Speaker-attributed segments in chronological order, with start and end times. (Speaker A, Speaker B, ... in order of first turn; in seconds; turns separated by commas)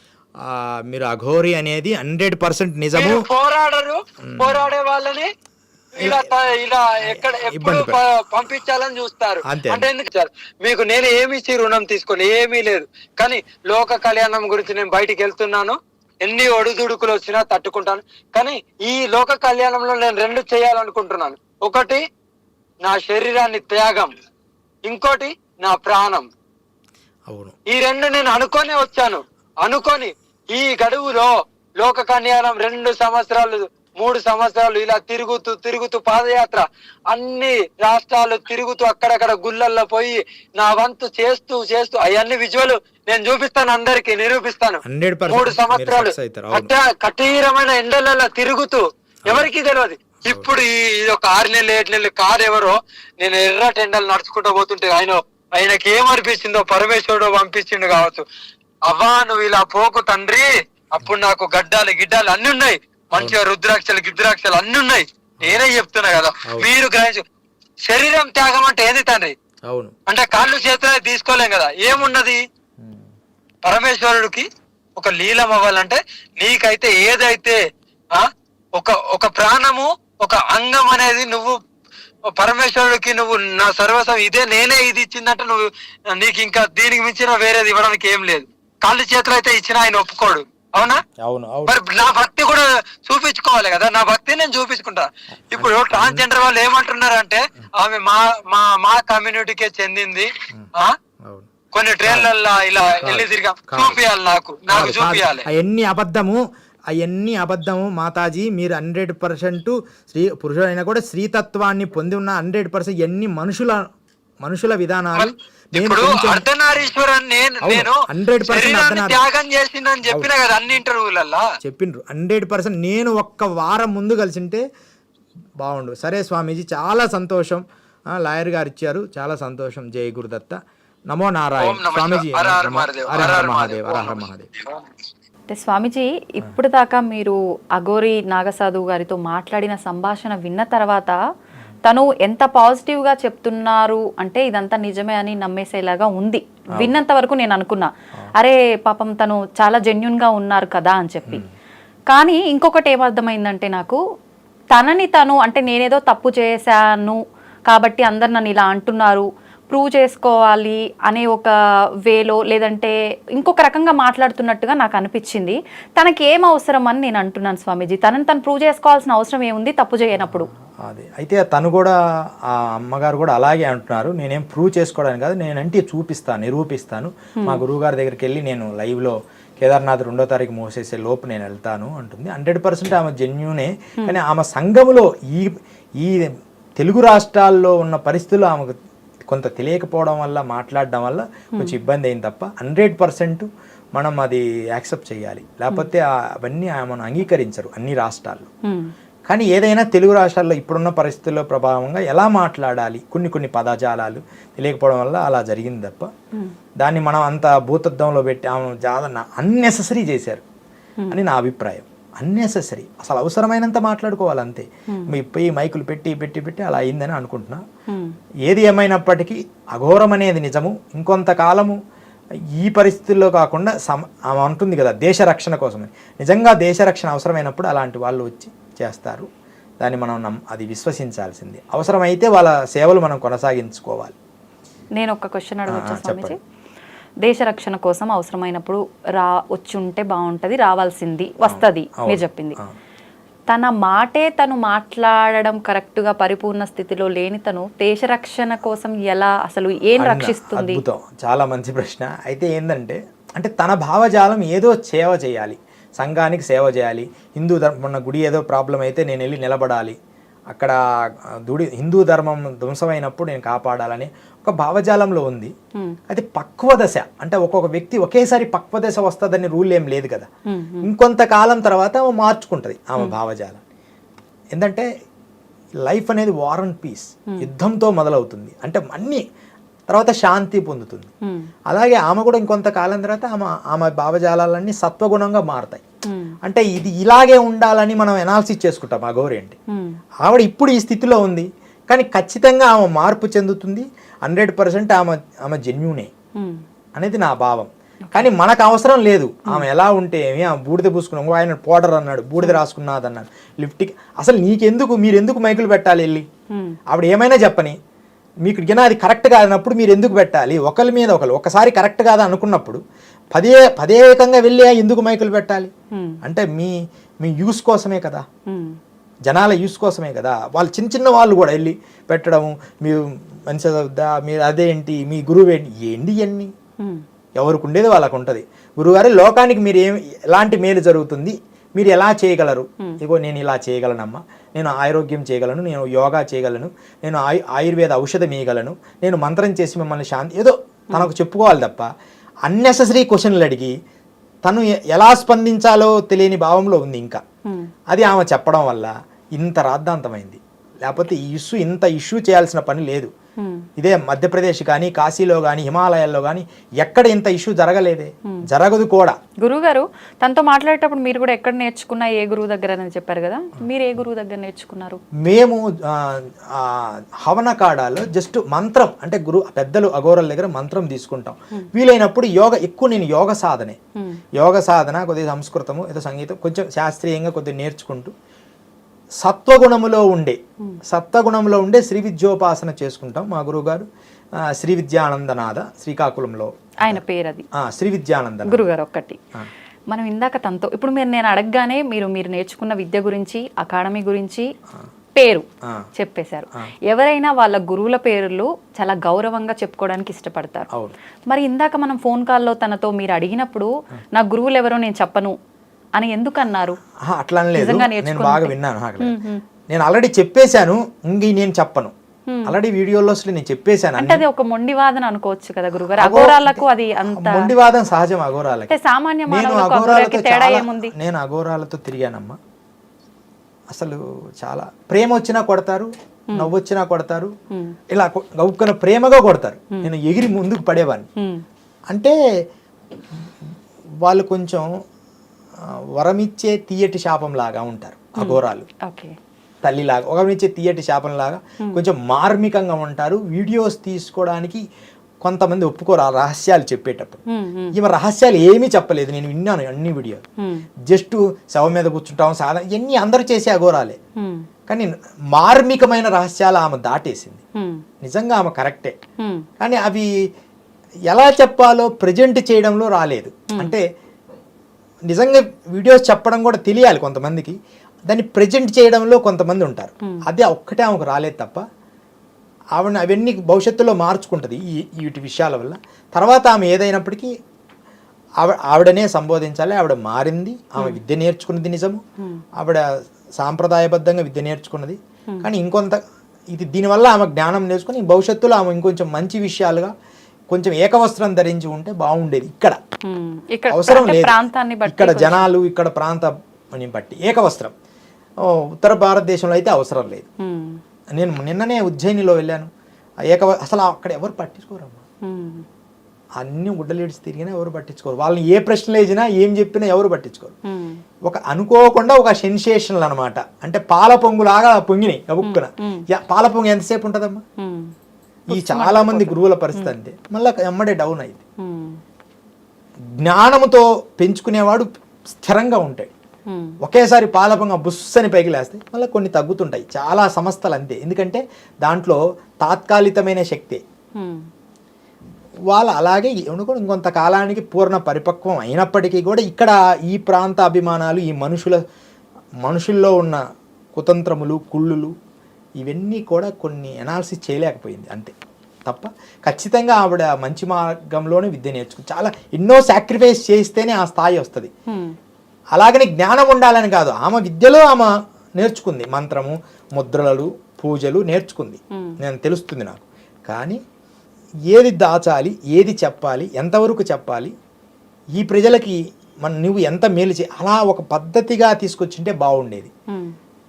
Speaker A: 0.4-3.2, Speaker B: 3.0-5.3, Speaker A: 4.2-4.7, Speaker B: 6.0-22.0, Speaker A: 6.0-6.3, Speaker A: 7.0-8.0, Speaker A: 9.4-9.9, Speaker B: 22.8-24.1, Speaker B: 24.9-26.2, Speaker A: 27.3-27.6, Speaker B: 27.7-58.2, Speaker A: 44.8-46.7, Speaker A: 50.2-50.5, Speaker B: 58.9-67.2, Speaker A: 66.4-66.7, Speaker B: 67.9-69.3, Speaker A: 69.7-69.9, Speaker B: 70.1-72.4, Speaker B: 73.6-74.5, Speaker B: 75.0-77.6, Speaker B: 78.1-81.6, Speaker B: 82.4-91.0, Speaker A: 90.8-91.8, Speaker B: 91.7-100.9, Speaker A: 95.5-96.2, Speaker B: 101.7-105.5, Speaker A: 102.0-102.3, Speaker A: 103.0-104.0, Speaker A: 104.7-113.8, Speaker A: 114.4-116.5, Speaker B: 115.2-121.4, Speaker A: 117.6-119.2, Speaker A: 120.0-120.3, Speaker A: 121.6-124.6, Speaker A: 125.6-127.6, Speaker A: 128.1-130.6, Speaker A: 131.1-134.5, Speaker B: 131.6-134.8, Speaker C: 135.5-141.1, Speaker C: 141.8-151.4, Speaker C: 152.1-154.0, Speaker C: 154.7-161.5, Speaker C: 162.1-170.5, Speaker A: 170.2-171.9, Speaker A: 172.5-188.7, Speaker A: 189.3-198.5, Speaker A: 199.3-206.1, Speaker A: 206.8-210.4, Speaker A: 211.1-217.6, Speaker A: 218.4-221.8, Speaker A: 222.6-229.3, Speaker A: 229.8-234.1, Speaker C: 235.0-236.4, Speaker A: 235.7-236.3, Speaker C: 237.2-242.6, Speaker A: 241.4-242.7, Speaker C: 243.5-250.8, Speaker A: 250.0-259.9, Speaker A: 261.4-265.5, Speaker A: 266.1-270.3, Speaker C: 270.5-270.9, Speaker A: 270.8-273.6, Speaker A: 274.5-274.9, Speaker A: 275.8-279.2, Speaker A: 279.9-281.1, Speaker A: 281.7-285.8, Speaker C: 286.1-286.4, Speaker A: 286.4-289.6, Speaker A: 290.2-296.1, Speaker A: 296.9-306.2, Speaker A: 306.9-307.7, Speaker A: 308.4-312.8, Speaker A: 313.3-315.7, Speaker C: 315.9-316.2, Speaker A: 316.2-318.2, Speaker C: 318.5-318.8, Speaker A: 319.2-326.5, Speaker A: 327.4-341.9, Speaker A: 342.4-343.7, Speaker A: 344.4-347.2, Speaker A: 347.9-353.1, Speaker A: 353.8-359.1, Speaker C: 359.4-365.0, Speaker A: 365.2-373.8, Speaker A: 374.4-378.1, Speaker A: 379.2-383.9, Speaker A: 384.4-387.0, Speaker C: 386.8-387.4, Speaker A: 387.6-388.6, Speaker C: 388.5-389.2, Speaker C: 389.9-394.4, Speaker C: 395.1-395.4, Speaker C: 395.9-400.7, Speaker C: 401.3-405.3, Speaker C: 406.0-406.7, Speaker A: 407.1-409.1, Speaker C: 407.6-409.4, Speaker A: 409.7-411.9, Speaker C: 412.3-412.5, Speaker A: 412.4-414.2, Speaker C: 414.0-417.5, Speaker A: 415.8-418.7, Speaker C: 418.7-420.9, Speaker A: 419.3-422.4, Speaker A: 423.7-427.3, Speaker A: 427.9-431.1, Speaker A: 434.0-434.7, Speaker A: 436.0-438.7, Speaker C: 438.2-439.1, Speaker A: 439.6-444.6, Speaker A: 445.2-447.2, Speaker C: 447.3-447.8, Speaker A: 447.7-450.2, Speaker A: 450.9-454.0, Speaker C: 454.2-454.4, Speaker A: 454.7-457.4, Speaker C: 457.6-457.8, Speaker A: 458.0-458.9, Speaker C: 459.2-459.5, Speaker A: 459.6-460.1, Speaker A: 461.1-463.8, Speaker C: 463.5-463.8, Speaker A: 465.1-467.5, Speaker A: 468.1-471.6, Speaker A: 472.8-477.3, Speaker A: 478.4-482.0, Speaker A: 483.4-486.0, Speaker A: 486.5-489.9, Speaker A: 490.5-492.8, Speaker C: 493.1-495.5, Speaker A: 493.7-497.7, Speaker A: 498.5-500.3, Speaker C: 500.4-500.8, Speaker A: 501.2-502.7, Speaker A: 503.3-505.0, Speaker C: 505.2-505.6, Speaker A: 506.4-510.5, Speaker C: 510.6-511.0, Speaker A: 511.3-517.4, Speaker C: 515.4-516.0, Speaker C: 517.6-517.9, Speaker A: 518.5-521.4, Speaker C: 518.5-519.9, Speaker C: 521.6-522.0, Speaker A: 523.2-526.1, Speaker C: 526.5-526.7, Speaker A: 526.8-533.8, Speaker C: 534.2-534.4, Speaker A: 535.7-541.8, Speaker A: 542.6-543.4, Speaker A: 543.9-545.1, Speaker A: 545.8-548.3, Speaker A: 548.9-554.7, Speaker C: 554.9-555.1, Speaker A: 555.7-563.8, Speaker A: 564.7-567.5, Speaker A: 568.4-572.9